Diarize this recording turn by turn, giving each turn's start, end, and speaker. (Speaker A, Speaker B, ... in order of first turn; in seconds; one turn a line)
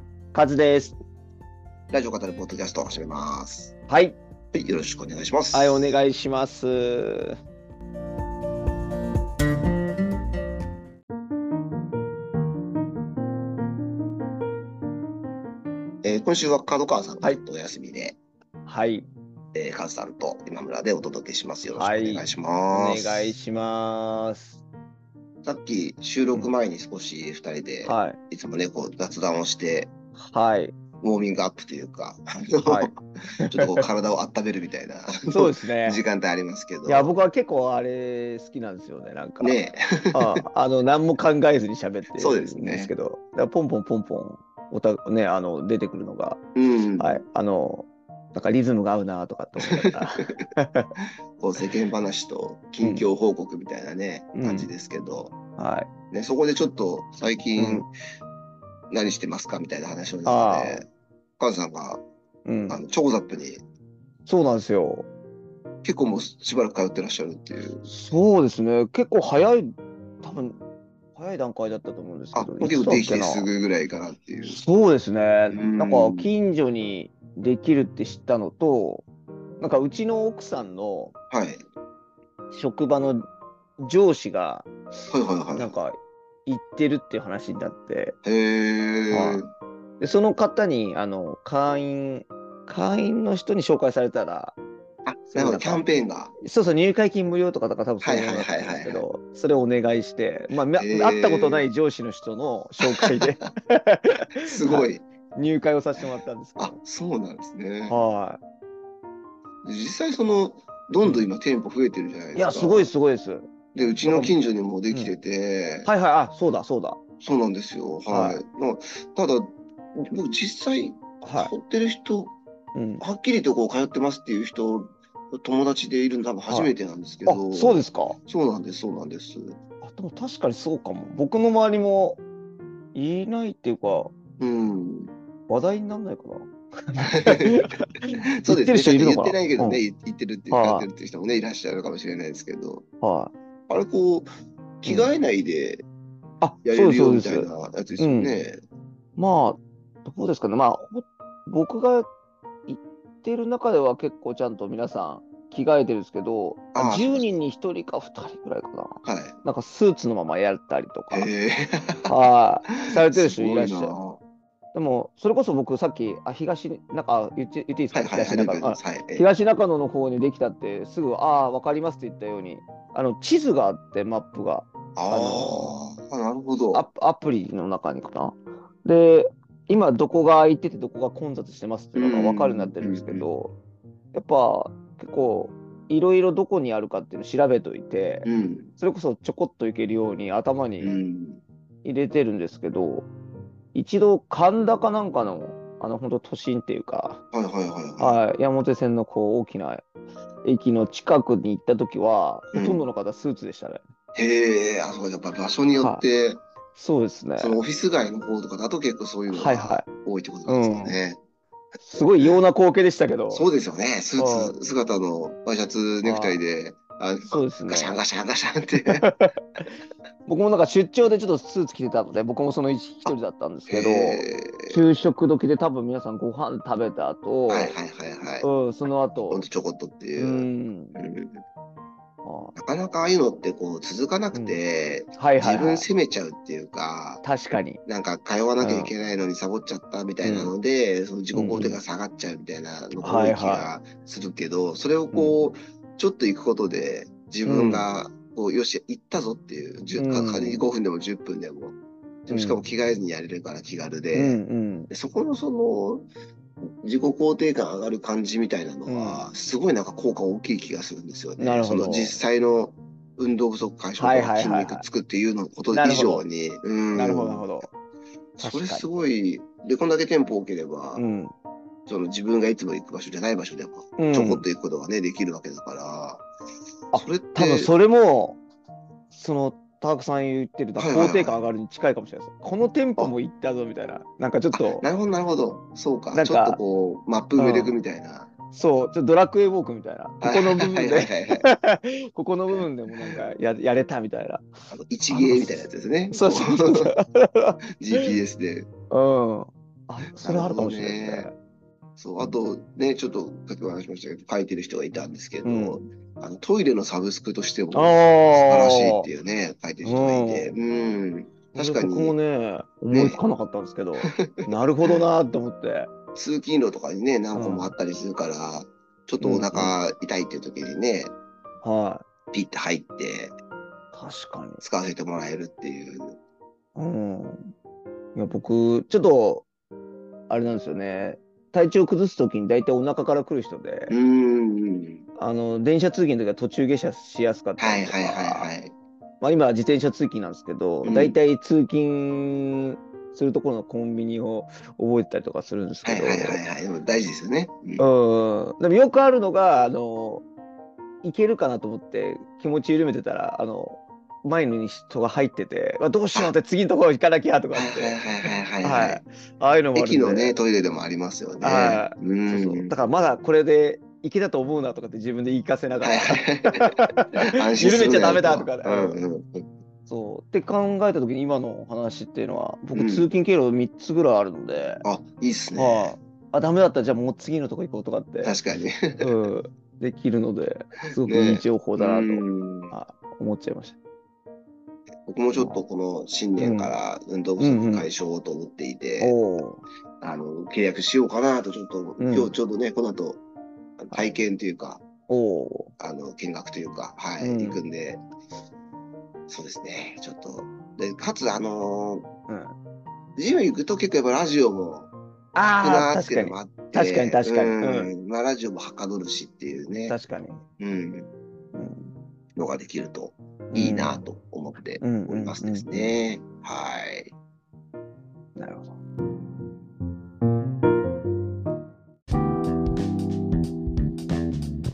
Speaker A: 0.3-0.9
Speaker B: 1.9-3.7
Speaker A: 3.9-4.2
Speaker B: 4.5-5.9
Speaker A: 5.5-7.3
Speaker B: 16.0-18.2
Speaker A: 18.6-19.1
Speaker B: 19.5-23.3
Speaker A: 21.8-24.6
Speaker B: 25.4-29.9
Speaker A: 27.8-28.2
Speaker A: 30.1-30.7
Speaker B: 31.0-37.1
Speaker A: 32.6-32.9
Speaker A: 33.4-33.8
Speaker A: 35.3-36.0
Speaker A: 36.9-39.6
Speaker B: 39.4-40.4
Speaker A: 40.1-46.4
Speaker B: 42.1-42.9
Speaker B: 46.5-47.2
Speaker A: 47.0-50.9
Speaker B: 49.9-50.2
Speaker B: 51.4-55.4
Speaker A: 52.8-53.1
Speaker A: 54.3-54.7
Speaker A: 55.6-55.9
Speaker B: 56.1-57.9
Speaker A: 57.6-57.9
Speaker B: 58.9-60.9
Speaker A: 60.2-60.8
Speaker B: 61.4-62.0
Speaker A: 62.5-62.8
Speaker B: 62.7-63.6
Speaker A: 64.2-65.0
Speaker B: 65.8-67.9
Speaker A: 67.8-70.6
Speaker A: 71.2-73.5
Speaker B: 72.3-74.6
Speaker A: 74.4-79.0
Speaker B: 75.5-76.3
Speaker A: 79.6-81.1
Speaker B: 81.3-81.6
Speaker A: 82.5-83.3
Speaker A: 83.8-84.7
Speaker B: 85.1-85.7
Speaker A: 85.5-88.2
Speaker B: 88.2-89.5
Speaker A: 89.1-89.4
Speaker A: 90.0-94.5
Speaker B: 95.0-96.3
Speaker A: 95.3-95.8
Speaker A: 96.4-106.8
Speaker B: 98.0-99.0
Speaker B: 100.8-101.7
Speaker B: 102.8-103.3
Speaker B: 104.4-105.0
Speaker B: 106.6-108.0
Speaker A: 107.9-108.4
Speaker B: 109.6-112.9
Speaker A: 112.3-113.5
Speaker B: 113.7-115.9
Speaker A: 114.0-114.3
Speaker A: 115.8-117.0
Speaker B: 117.2-122.3
Speaker A: 118.1-118.4
Speaker A: 121.2-121.5
Speaker A: 122.7-123.0
Speaker B: 123.0-129.6
Speaker A: 127.2-128.2
Speaker A: 129.8-132.2
Speaker A: 132.9-134.1
Speaker B: 134.4-135.1
Speaker A: 135.5-139.8
Speaker B: 137.1-137.7
Speaker B: 138.4-142.8
Speaker A: 140.5-140.9
Speaker A: 143.0-143.3
Speaker B: 143.7-144.3
Speaker B: 144.8-145.8
Speaker A: 146.4-148.3
Speaker B: 146.6-148.6
Speaker A: 149.2-152.1
Speaker A: 152.7-161.3
Speaker B: 156.7-157.3
Speaker B: 159.0-159.3
Speaker B: 161.1-162.1
Speaker A: 162.1-164.0
Speaker B: 162.8-164.2
Speaker A: 164.7-175.8
Speaker B: 167.9-169.3
Speaker B: 174.9-176.8
Speaker A: 176.7-183.5
Speaker B: 181.9-183.3
Speaker A: 184.1-191.0
Speaker B: 188.2-188.7
Speaker B: 190.8-191.4
Speaker A: 191.8-193.1
Speaker A: 193.7-197.2
Speaker B: 197.3-198.2
Speaker A: 198.0-199.8
Speaker A: 200.4-203.8
Speaker B: 202.5-202.8
Speaker B: 204.2-206.4
Speaker A: 205.8-206.0
Speaker A: 206.8-207.6
Speaker B: 207.4-211.2
Speaker A: 209.3-209.9
Speaker A: 210.5-211.0
Speaker A: 211.8-213.5
Speaker B: 211.9-212.4
Speaker B: 213.3-219.1
Speaker A: 214.2-214.6
Speaker A: 216.0-216.4
Speaker A: 217.3-218.0
Speaker A: 218.9-219.4
Speaker A: 220.2-227.7
Speaker B: 223.7-224.8
Speaker B: 227.5-228.5
Speaker A: 228.4-229.5
Speaker B: 229.3-231.4
Speaker A: 230.2-231.0
Speaker A: 232.2-232.6
Speaker B: 232.6-237.2
Speaker A: 235.2-235.9
Speaker A: 237.2-237.8
Speaker B: 237.8-251.8
Speaker A: 238.6-238.9
Speaker A: 240.2-240.5
Speaker A: 241.3-241.8
Speaker A: 243.0-243.7
Speaker A: 245.1-245.4
Speaker A: 247.4-247.8
Speaker A: 250.0-250.7
Speaker B: 252.3-254.4
Speaker A: 252.3-252.6
Speaker A: 254.1-254.9
Speaker B: 254.9-256.1
Speaker B: 256.8-267.6
Speaker A: 258.9-259.2
Speaker A: 261.4-262.2
Speaker A: 264.0-264.9
Speaker A: 265.7-266.2
Speaker A: 266.9-267.7
Speaker B: 268.4-271.0
Speaker A: 268.4-268.9
Speaker A: 270.9-271.3
Speaker B: 271.9-276.2
Speaker A: 274.0-274.4
Speaker A: 276.9-278.4
Speaker B: 276.9-277.7
Speaker A: 279.1-284.9
Speaker B: 280.8-281.4
Speaker B: 284.5-288.3
Speaker A: 286.1-286.6
Speaker A: 287.4-287.8
Speaker A: 288.5-294.5
Speaker B: 290.2-291.4
Speaker B: 292.5-293.2
Speaker B: 294.7-296.9
Speaker A: 295.1-298.1
Speaker B: 297.8-298.7
Speaker A: 298.9-301.3
Speaker B: 300.2-301.3
Speaker B: 302.0-312.1
Speaker A: 305.4-305.8
Speaker A: 307.7-309.1
Speaker A: 309.8-310.5
Speaker A: 311.5-315.9
Speaker B: 312.9-313.2
Speaker B: 314.1-315.0
Speaker B: 316.1-321.1
Speaker A: 317.4-317.7
Speaker A: 319.2-319.7
Speaker A: 321.6-322.0
Speaker B: 322.3-323.3
Speaker A: 323.9-324.6
Speaker B: 324.6-326.2
Speaker A: 326.8-327.5
Speaker A: 328.1-329.4
Speaker A: 330.3-333.9
Speaker B: 333.9-335.0
Speaker A: 335.2-338.5
Speaker B: 337.6-338.7
Speaker A: 339.2-346.4
Speaker B: 340.8-341.2
Speaker B: 345.8-347.8
Speaker A: 347.8-350.2
Speaker A: 351.0-358.0
Speaker B: 357.5-359.0
Speaker A: 358.6-360.4
Speaker B: 359.7-362.8
Speaker A: 361.4-369.0
Speaker B: 365.8-366.8
Speaker B: 367.3-369.5
Speaker A: 369.9-374.8
Speaker B: 372.7-373.1
Speaker B: 374.8-375.9
Speaker A: 375.6-378.4
Speaker B: 378.2-379.1
Speaker A: 379.0-383.8
Speaker B: 381.0-382.7
Speaker B: 385.1-389.2
Speaker A: 385.4-385.6
Speaker A: 386.4-386.8
Speaker A: 387.4-387.9
Speaker A: 389.0-389.6
Speaker B: 390.0-393.2
Speaker A: 392.0-392.3
Speaker B: 393.8-394.8
Speaker A: 395.1-395.7
Speaker B: 395.8-398.0
Speaker A: 397.2-397.6
Speaker B: 399.3-402.1
Speaker A: 402.3-402.5
Speaker B: 403.2-404.9
Speaker A: 405.3-407.9
Speaker B: 405.6-409.9
Speaker A: 409.9-410.4
Speaker B: 410.6-411.1
Speaker A: 411.5-411.9
Speaker B: 412.4-417.1
Speaker A: 413.5-414.0
Speaker A: 414.8-415.9
Speaker A: 418.4-418.8